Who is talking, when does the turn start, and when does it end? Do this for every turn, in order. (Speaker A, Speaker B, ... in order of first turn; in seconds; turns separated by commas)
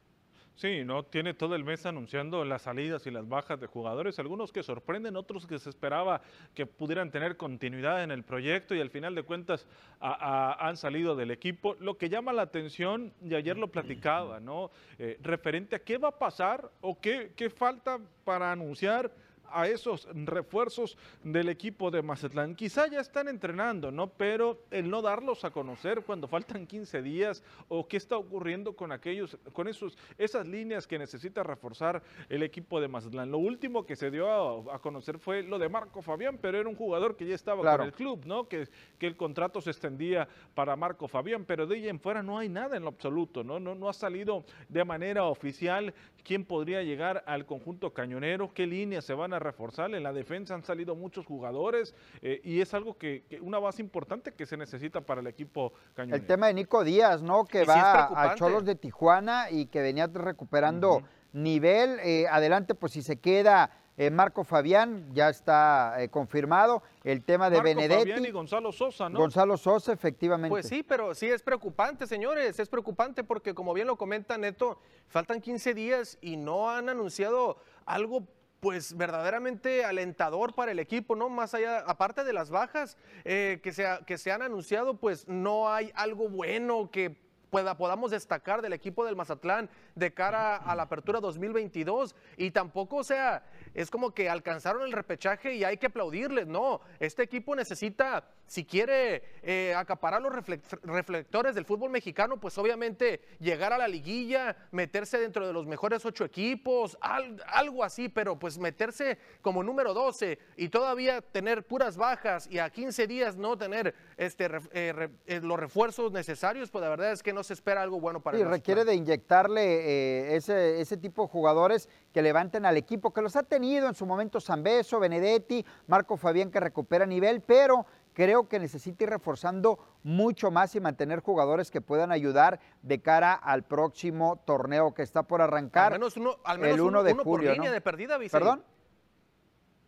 Speaker A: 0.6-56.4, Speaker B: 37.6-37.9, Speaker B: 56.1-68.3, Speaker C: 57.6-58.6, Speaker A: 60.7-61.0, Speaker A: 67.5-69.3, Speaker B: 69.1-70.7, Speaker C: 70.5-118.8, Speaker B: 118.3-136.0, Speaker C: 135.8-138.6, Speaker B: 136.6-137.7, Speaker B: 138.3-138.6